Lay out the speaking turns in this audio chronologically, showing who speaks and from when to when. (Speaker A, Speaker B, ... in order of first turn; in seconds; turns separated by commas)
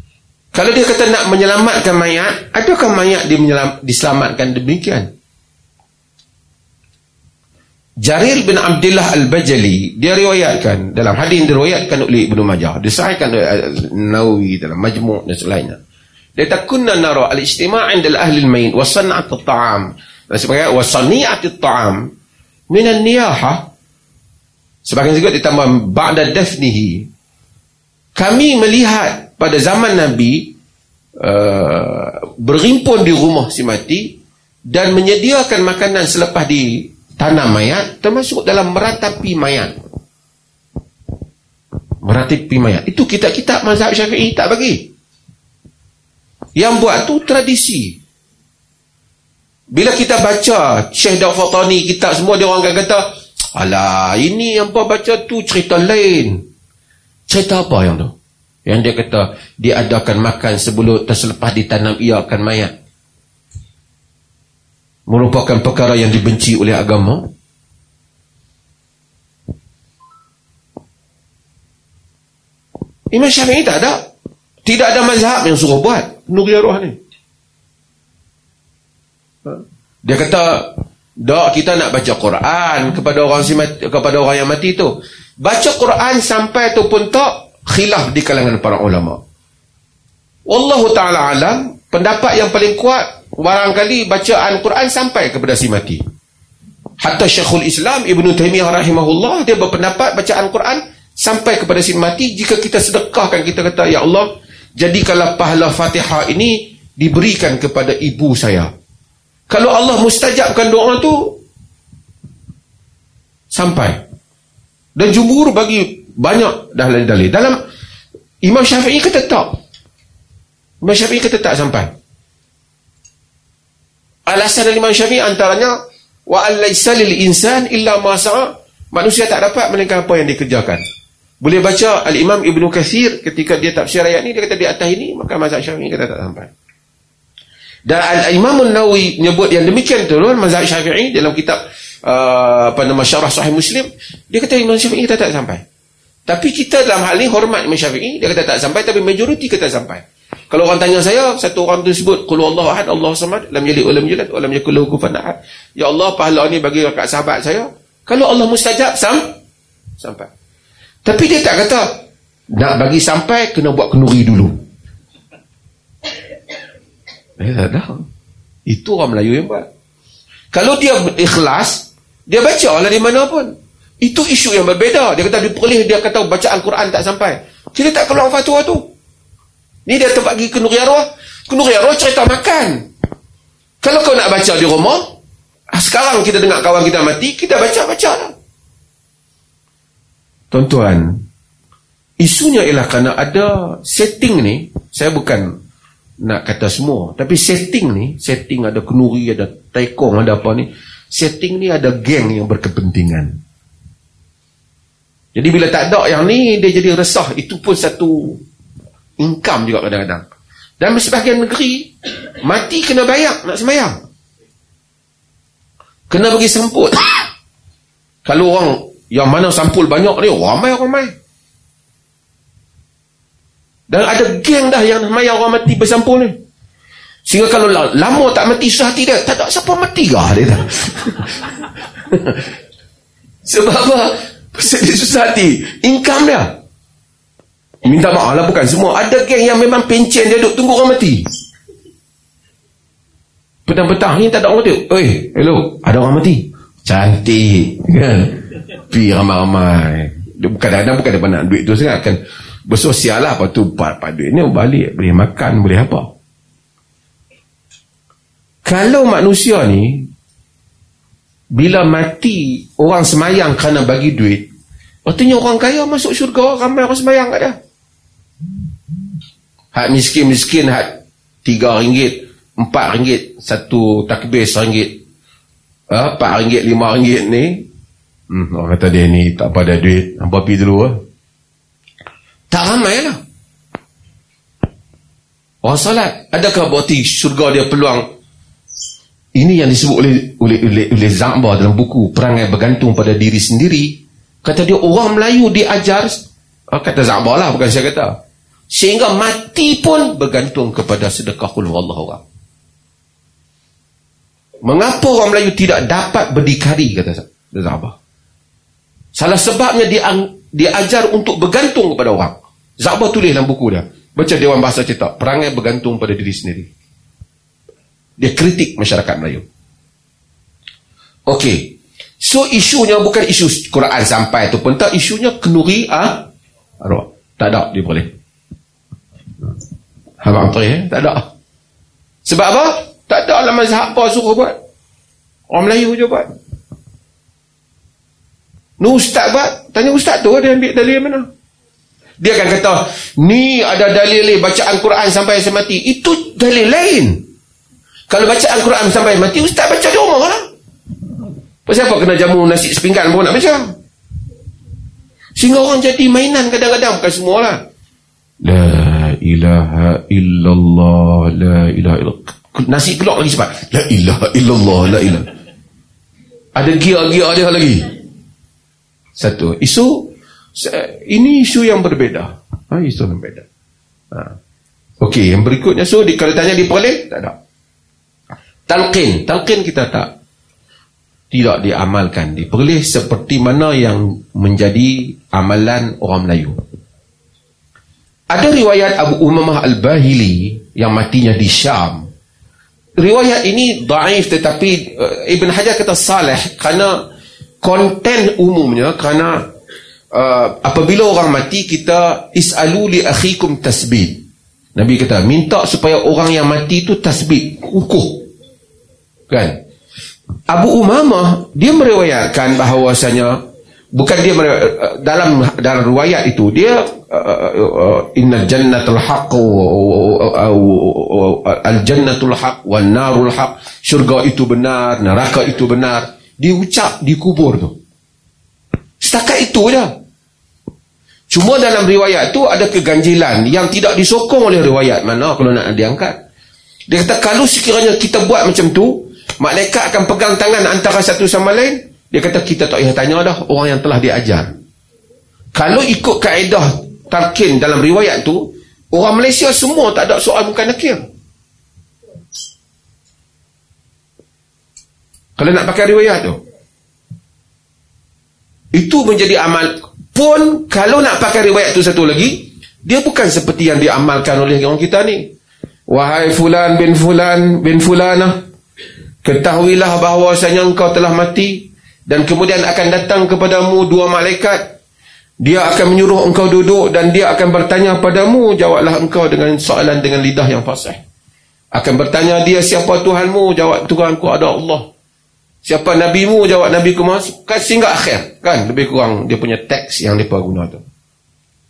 Speaker A: 0.5-5.1, Speaker A: 8.0-15.8, Speaker A: 16.4-22.1, Speaker A: 22.7-23.7, Speaker A: 24.8-27.1, Speaker A: 28.1-30.5, Speaker A: 31.2-34.1, Speaker A: 34.7-39.8, Speaker A: 42.0-44.9, Speaker A: 46.5-48.0, Speaker A: 49.7-56.4, Speaker A: 57.3-62.7, Speaker A: 65.1-67.3, Speaker A: 73.1-74.0, Speaker A: 74.6-77.0, Speaker A: 79.5-89.2, Speaker A: 90.5-96.0, Speaker A: 97.0-108.7, Speaker A: 109.5-111.4, Speaker A: 113.5-114.0, Speaker A: 115.0-117.6, Speaker A: 118.4-119.5, Speaker A: 120.8-121.9, Speaker A: 124.3-125.8, Speaker A: 126.3-130.8, Speaker A: 131.4-136.5, Speaker A: 137.8-145.6, Speaker A: 146.3-159.3, Speaker A: 160.0-160.3, Speaker A: 161.0-161.9, Speaker A: 162.5-164.6, Speaker A: 167.4-168.0, Speaker A: 168.7-169.7, Speaker A: 170.5-178.8, Speaker A: 179.8-182.8, Speaker A: 183.8-185.1, Speaker A: 185.7-188.3, Speaker A: 190.5-191.2, Speaker A: 192.2-195.5, Speaker A: 196.2-203.4, Speaker A: 205.3-208.4, Speaker A: 209.2-210.2, Speaker A: 210.8-213.9, Speaker A: 216.1-217.3, Speaker A: 218.2-221.1, Speaker A: 223.9-226.3, Speaker A: 227.2-231.5, Speaker A: 232.1-232.5, Speaker A: 233.4-236.5, Speaker A: 237.8-241.3, Speaker A: 243.7-248.4, Speaker A: 248.9-256.1, Speaker A: 258.6-260.1, Speaker A: 261.6-264.4, Speaker A: 265.1-267.6, Speaker A: 269.7-275.0, Speaker A: 275.9-277.6, Speaker A: 278.3-281.0, Speaker A: 282.5-283.2, Speaker A: 285.6-288.0, Speaker A: 289.4-298.1, Speaker A: 298.7-302.2, Speaker A: 304.6-307.9, Speaker A: 309.1-316.7, Speaker A: 318.2-319.4, Speaker A: 321.3-326.3, Speaker A: 326.8-328.1, Speaker A: 330.2-331.3, Speaker A: 332.2-334.6, Speaker A: 335.5-336.2, Speaker A: 338.8-341.3, Speaker A: 342.2-347.2, Speaker A: 348.1-350.4, Speaker A: 351.6-353.7, Speaker A: 355.4-357.6, Speaker A: 358.4-365.3, Speaker A: 366.5-367.9, Speaker A: 369.1-373.4, Speaker A: 375.0-377.3, Speaker A: 378.7-380.1, Speaker A: 381.3-386.6, Speaker A: 388.3-392.1, Speaker A: 393.0-396.9, Speaker A: 397.6-399.4, Speaker A: 400.1-404.2, Speaker A: 404.7-408.2, Speaker A: 409.3-409.5, Speaker A: 410.5-413.4, Speaker A: 413.9-427.8, Speaker A: 429.0-429.9, Speaker A: 431.3-436.2, Speaker A: 436.9-444.5, Speaker A: 445.5-451.0, Speaker A: 455.4-456.4, Speaker A: 458.7-465.3, Speaker A: 465.9-468.3, Speaker A: 469.2-474.7, Speaker A: 475.4-481.0, Speaker A: 481.7-484.9, Speaker A: 485.6-490.8